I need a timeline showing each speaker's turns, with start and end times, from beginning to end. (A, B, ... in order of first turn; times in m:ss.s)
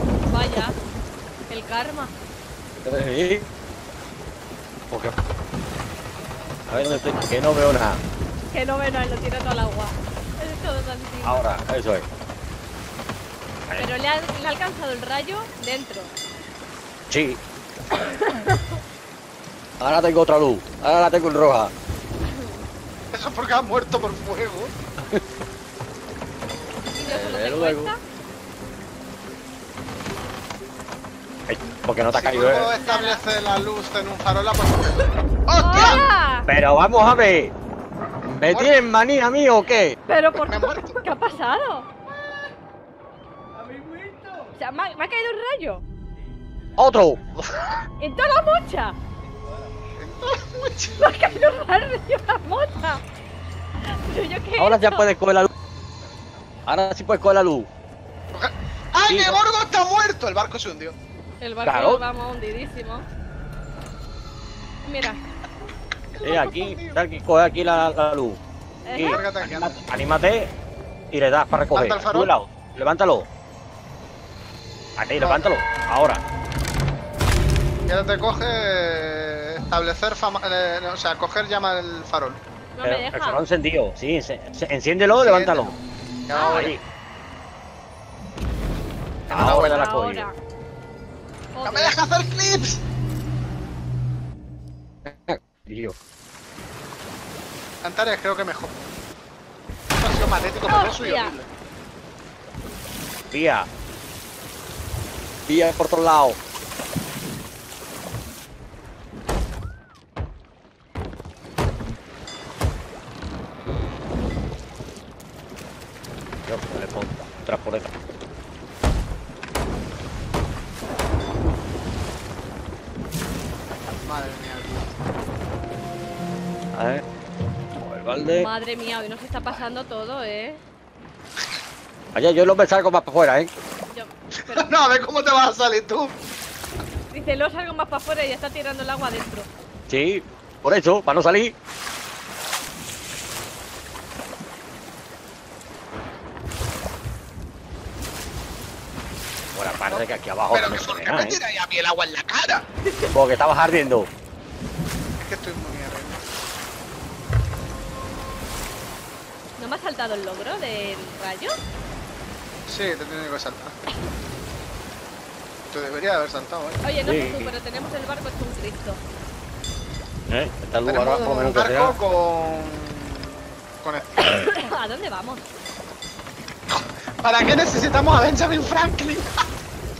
0:00.3-0:00.8 A
0:01.5-0:02.1 A
0:02.8-0:03.5 B
0:06.7-0:08.0 B
0:06.9-0:07.3 A
0:08.5-0:11.4 A
0:11.2-0:12.0 B
0:13.8-0:16.1 A
0:17.1-0:17.4 B
0:18.0-0:18.5 A
0:19.8-0:21.7 B
0:22.3-0:22.6 A
0:23.1-0:24.7 C
0:26.9-0:28.0 A
0:27.0-0:27.9 B
0:31.5-0:32.7 B
0:32.1-0:36.0 C
0:32.7-0:33.2 A
0:35.6-0:36.5 A
0:36.5-0:37.5 B
0:38.2-0:38.9 C
0:38.4-0:40.0 B
0:40.1-0:41.9 A
0:40.3-0:41.0 C
0:44.5-0:45.8 A
0:46.8-0:47.8 B
0:48.0-0:49.0 A
0:50.0-0:51.0 C
0:51.0-0:53.0 A
0:53.8-0:55.1 A
0:54.6-0:55.5 B
0:56.7-0:57.7 B
0:58.3-1:01.0 C
0:59.1-0:59.4 B
1:01.4-1:03.1 A
1:01.6-1:02.0 B
1:04.8-1:05.3 A
1:06.2-1:07.0 C
1:06.2-1:08.4 B
1:08.9-1:09.2 A
1:09.0-1:10.5 B
1:09.0-1:09.8 C
1:11.1-1:13.3 B
1:11.7-1:12.3 C
1:15.0-1:16.2 B
1:15.2-1:15.6 C
1:17.9-1:22.4 C
1:22.8-1:23.4 A
1:22.8-1:25.7 B
1:25.2-1:25.8 C
1:26.3-1:26.8 C
1:26.3-1:26.7 A
1:26.4-1:26.8 B
1:29.3-1:29.8 C
1:29.3-1:30.3 B
1:29.3-1:30.4 A
1:31.5-1:32.0 A
1:31.6-1:32.8 C
1:35.0-1:36.0 B
1:37.8-1:38.9 C
1:40.0-1:41.5 C
1:40.6-1:41.4 A
1:43.3-1:43.7 B
1:45.5-1:46.4 B
1:56.5-1:57.9 B
2:03.9-2:04.9 C
2:06.7-2:07.0 B
2:07.8-2:08.5 B
2:08.4-2:10.6 A
2:12.2-2:13.5 B
2:13.9-2:14.7 A
2:14.4-2:16.1 C
2:17.1-2:19.5 A
2:19.9-2:21.5 B
2:29.6-2:31.4 B
2:30.5-2:32.7 C
2:32.9-2:33.1 A
2:33.1-2:34.1 B
2:35.2-2:36.2 C
2:39.6-2:41.6 A
2:42.7-2:43.8 C
2:45.7-2:46.8 C
2:46.8-2:49.0 A
2:47.0-2:47.5 B
2:50.3-2:52.0 B
2:50.8-2:54.5 C
2:54.2-2:55.5 A
2:56.7-2:59.4 C